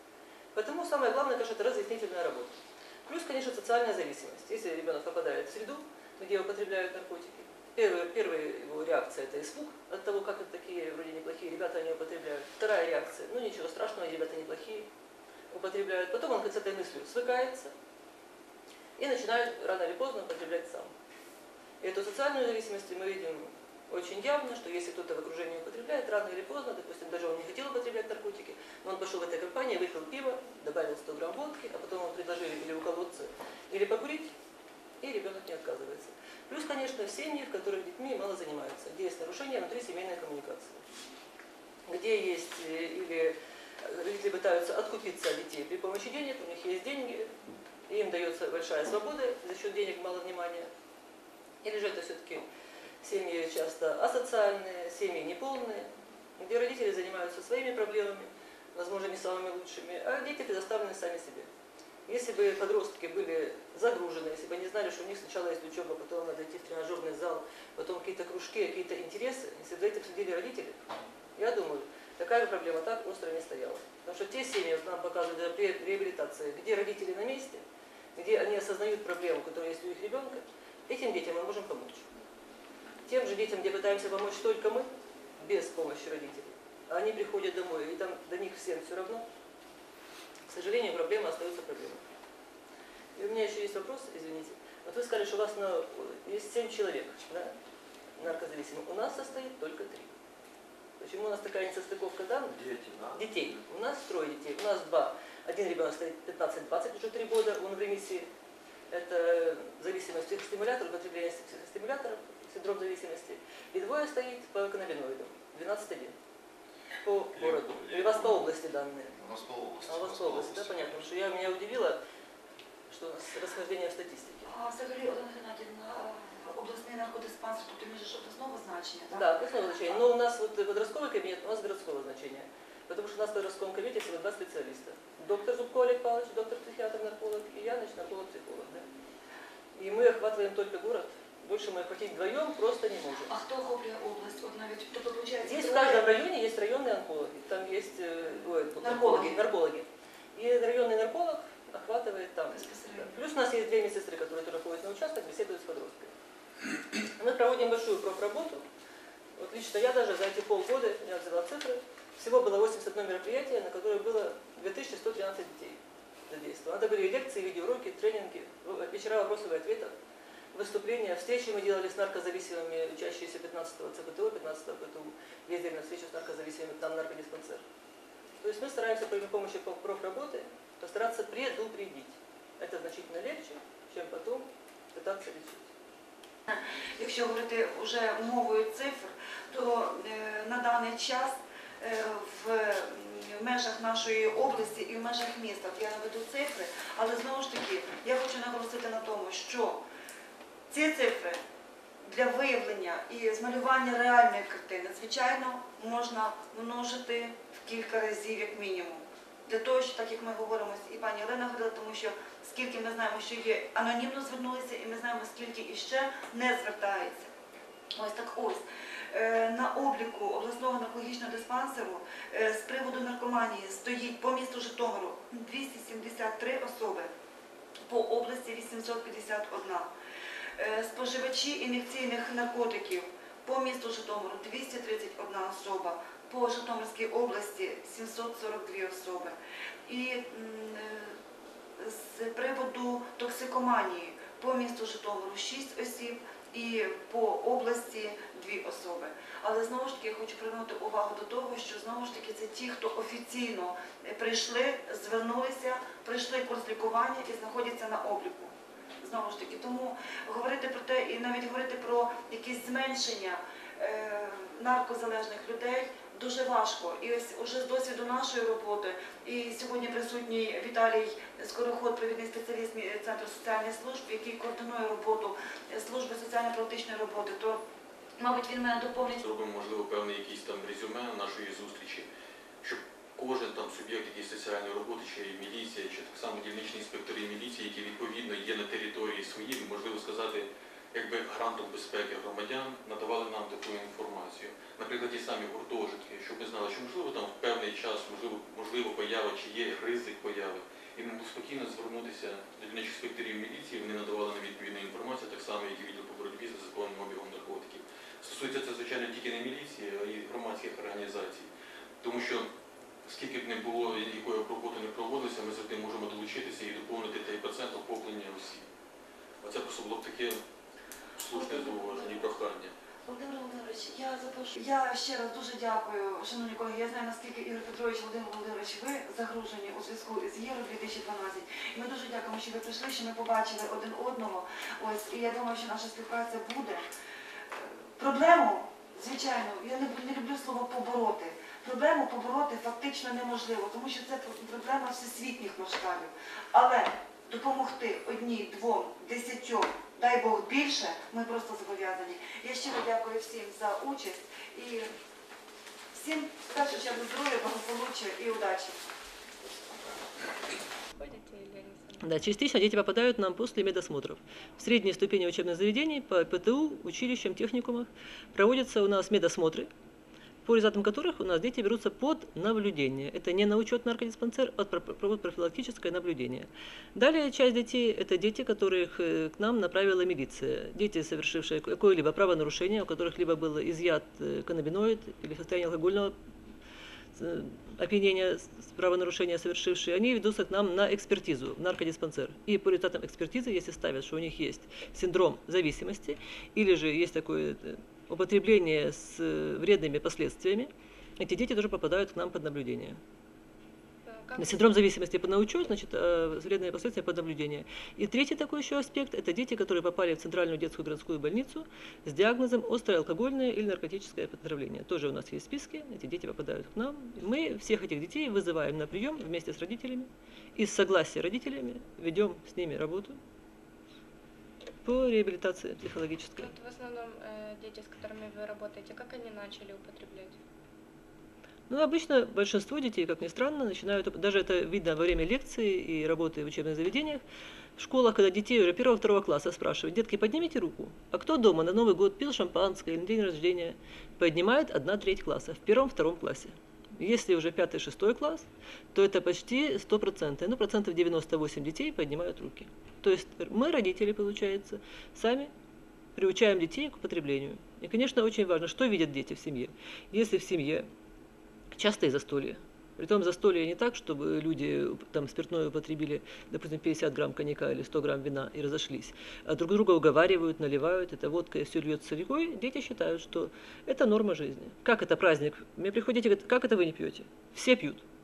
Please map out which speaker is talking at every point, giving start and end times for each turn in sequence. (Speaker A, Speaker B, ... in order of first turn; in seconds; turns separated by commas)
Speaker A: 0.5-14.9, Speaker A: 15.5-17.7, Speaker A: 19.0-20.9, Speaker A: 21.8-34.3, Speaker A: 35.0-40.8, Speaker A: 41.9-47.3, Speaker A: 47.9-50.7, Speaker A: 51.6-52.5, Speaker A: 53.0-61.5, Speaker A: 62.1-70.8, Speaker A: 71.4-77.6, Speaker A: 78.2-82.0, Speaker A: 83.1-84.9, Speaker A: 85.4-89.2, Speaker A: 90.5-92.0, Speaker A: 93.2-97.5, Speaker A: 98.2-100.1, Speaker A: 101.0-108.3, Speaker A: 108.9-116.2, Speaker A: 117.0-119.2, Speaker B: 117.4-118.5, Speaker B: 119.2-121.1, Speaker A: 119.8-122.0, Speaker A: 122.9-124.5, Speaker C: 124.5-129.2, Speaker A: 129.1-138.9, Speaker A: 139.8-143.3, Speaker C: 143.3-146.1, Speaker A: 145.4-156.1, Speaker C: 148.8-149.4, Speaker C: 152.5-153.1, Speaker A: 157.2-158.7, Speaker A: 159.4-169.9, Speaker A: 170.5-177.6, Speaker A: 178.4-185.7, Speaker C: 186.5-199.8, Speaker C: 200.7-201.4, Speaker C: 202.1-217.3, Speaker C: 217.9-227.1, Speaker C: 227.9-229.9, Speaker C: 230.6-239.4, Speaker C: 239.9-241.2, Speaker C: 241.8-277.6, Speaker C: 278.2-279.2, Speaker D: 279.1-282.1, Speaker D: 282.6-311.5, Speaker D: 312.0-312.5, Speaker D: 313.1-318.6, Speaker D: 319.4-320.4, Speaker D: 321.2-322.7, Speaker C: 321.3-322.3, Speaker C: 323.1-336.8, Speaker C: 337.6-354.9, Speaker C: 355.9-358.8, Speaker E: 361.0-362.1, Speaker A: 362.0-369.7, Speaker A: 370.4-386.1, Speaker A: 387.2-403.0, Speaker E: 404.1-404.8, Speaker A: 404.4-423.2, Speaker A: 424.9-426.5, Speaker E: 426.4-430.4, Speaker A: 431.7-437.2, Speaker A: 437.8-455.5, Speaker A: 456.2-460.9, Speaker A: 461.7-478.0